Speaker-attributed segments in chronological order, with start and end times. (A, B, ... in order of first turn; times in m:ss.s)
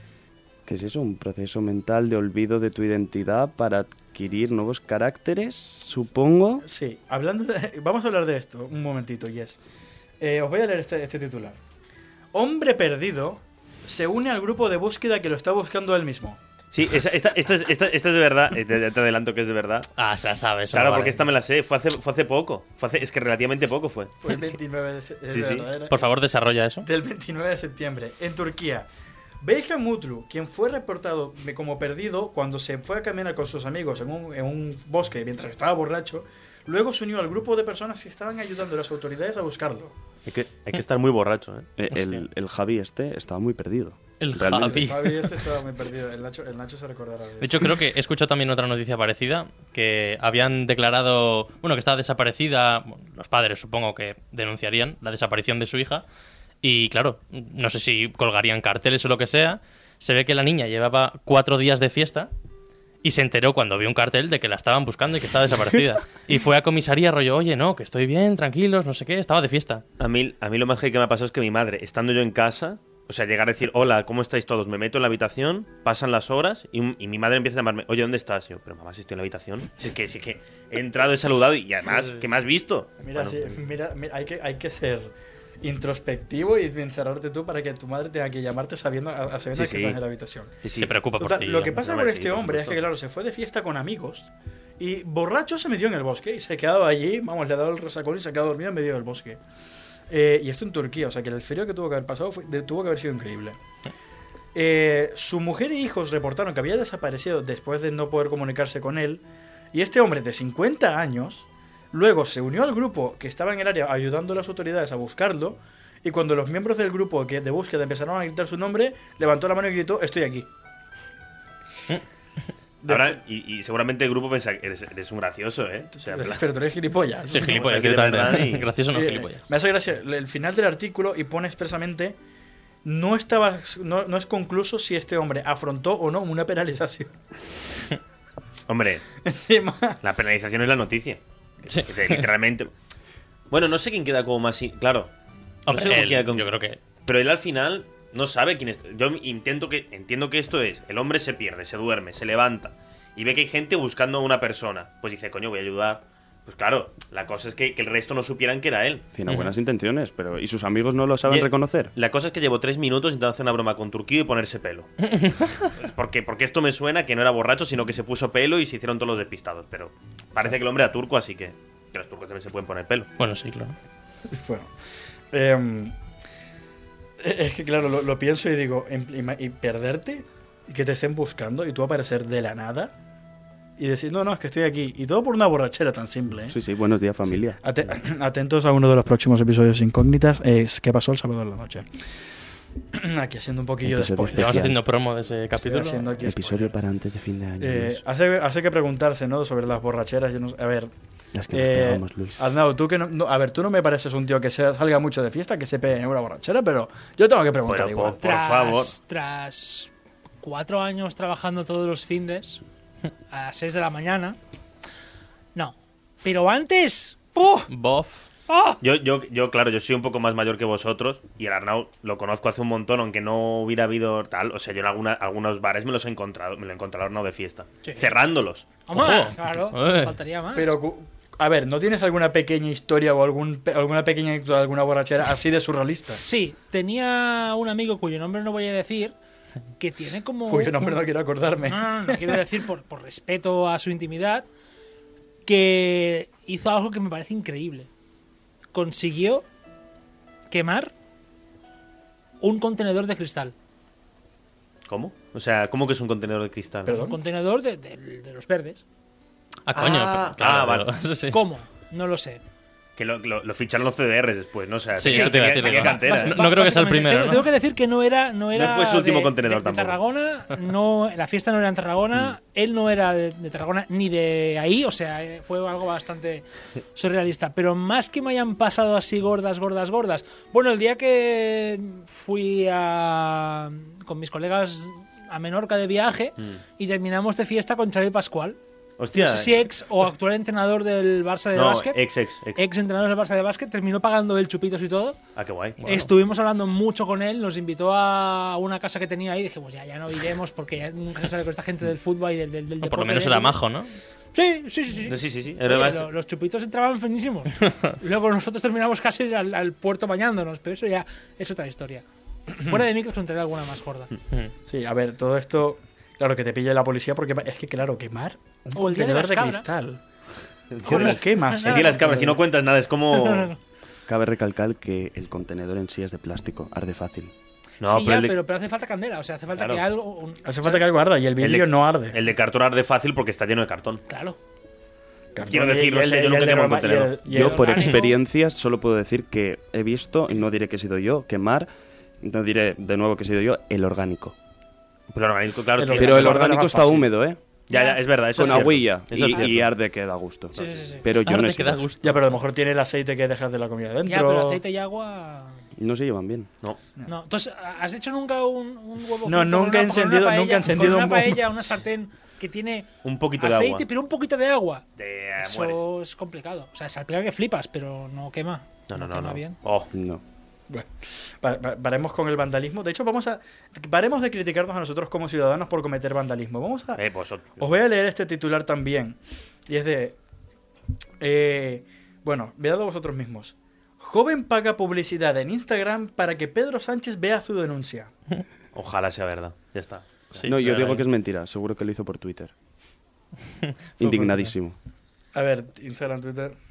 0:00.6-0:06.6 A
0:06.6-0:09.6 B
0:10.2-0:11.6 B
0:12.3-0:16.4 B
0:16.7-0:19.9 C
0:20.0-0:21.2 D
0:20.7-0:24.2 C
0:24.2-0:26.1 B
0:25.3-0:25.7 C
0:25.9-0:26.9 D
0:26.8-0:28.9 B
0:29.4-0:39.9 B
0:40.2-0:41.7 C
0:41.8-0:45.0 A
0:41.9-0:42.2 D
0:44.2-0:45.4 D
0:44.6-0:47.8 B
0:47.4-0:56.0 D
0:56.6-1:02.3 D
1:03.0-1:09.8 D
1:10.0-1:23.6 C
1:23.0-1:30.5 B
1:29.5-1:30.0 C
1:30.6-1:31.0 C
1:30.7-1:31.7 D
1:31.2-1:39.4 B
1:31.6-1:32.8 C
1:40.1-1:43.6 B
1:44.5-1:49.2 B
1:49.7-2:00.5 B
2:02.8-2:03.2 B
2:02.8-2:06.4 C
2:06.0-2:08.0 B
2:07.3-2:09.5 D
2:07.4-2:08.7 C
2:08.9-2:12.2 B
2:12.8-2:17.1 B
2:18.7-2:19.0 C
2:19.2-2:20.0 B
2:20.0-2:22.7 C
2:21.7-2:22.2 D
2:23.5-2:25.1 C
2:25.7-2:26.8 D
2:25.7-2:26.5 C
2:27.0-2:39.0 C
2:39.1-2:41.9 A
2:41.3-2:44.9 C
2:45.1-2:45.6 D
2:45.8-2:53.1 C
2:53.2-2:53.7 D
2:54.3-2:54.7 B
2:55.3-2:55.9 B
2:57.2-3:02.9 B
3:03.8-3:06.6 B
3:06.5-3:07.6 A
3:07.6-3:11.9 B
3:12.9-3:14.7 B
3:13.8-3:14.7 A
3:14.3-3:16.1 D
3:15.5-3:16.7 B
3:16.2-3:18.0 A
3:17.6-3:20.9 B
3:21.3-3:22.4 A
3:21.5-3:28.2 B
3:27.6-3:28.9 C
3:28.2-3:29.9 E
3:30.4-3:32.6 E
3:33.3-3:34.4 E
3:35.5-3:37.7 E
3:37.7-3:38.2 D
3:38.5-3:38.8 E
3:38.8-3:48.7 C
3:47.8-3:48.1 E
3:48.9-3:50.7 E
3:48.9-3:50.1 D
3:50.5-3:56.2 B
3:56.2-3:59.1 E
3:59.8-4:01.0 E
4:00.5-4:02.4 B
4:01.7-4:04.4 E
4:05.4-4:07.9 E
4:08.7-4:09.4 E
4:10.5-4:10.9 E
4:12.4-4:13.5 E
4:14.9-4:17.0 C
4:16.9-4:17.2 B
4:16.9-4:18.8 E
4:19.7-4:21.4 D
4:19.7-4:20.9 C
4:21.3-4:22.4 E
4:23.0-4:26.4 C
4:25.0-4:27.5 D
4:25.0-4:48.6 E
4:28.5-4:30.0 C
4:49.0-4:49.7 C
4:49.1-4:52.0 E
4:51.5-4:52.6 C
4:52.6-4:55.2 E
4:55.4-4:55.8 C
4:55.8-4:56.1 D
4:55.8-5:03.6 E
5:02.8-5:03.9 D
5:04.3-5:12.0 E
5:05.1-5:06.1 C
5:12.6-5:14.1 E
5:14.7-5:20.0 B
5:18.7-5:19.7 E
5:20.7-5:23.5 C
5:20.8-5:22.4 B
5:20.8-5:22.1 E
5:23.1-5:23.6 E
5:24.1-5:27.3 A
5:27.8-5:28.4 C
5:27.8-5:30.9 E
5:29.5-5:29.8 C
5:30.4-5:32.2 B
5:31.4-5:34.0 C
5:34.1-5:34.4 E
5:35.3-5:38.0 B
5:35.5-5:37.2 C
5:37.3-5:41.7 A
5:37.4-5:38.2 E
5:42.2-5:44.3 A
5:45.1-5:46.5 C
5:45.8-5:47.1 B
5:46.0-5:47.4 A
5:47.7-5:49.7 C
5:47.7-5:48.0 E
5:48.3-5:51.8 A
5:50.6-5:51.0 E
5:51.2-5:52.2 D
5:52.0-5:54.6 B
5:54.0-5:55.6 E
5:55.8-5:56.5 A
5:57.0-6:04.8 E
5:59.2-6:01.4 B
6:03.0-6:03.8 C
6:05.0-6:05.8 C
6:05.4-6:09.6 E
6:08.9-6:09.9 C
6:09.9-6:10.2 A
6:11.4-6:17.0 B
6:17.0-6:17.8 C
6:17.6-6:20.2 B
6:21.2-6:28.1 B
6:28.7-6:30.4 C
6:30.4-6:31.0 D
6:30.4-6:32.5 A
6:33.6-6:34.5 D
6:34.0-6:34.8 A
6:35.3-6:36.6 B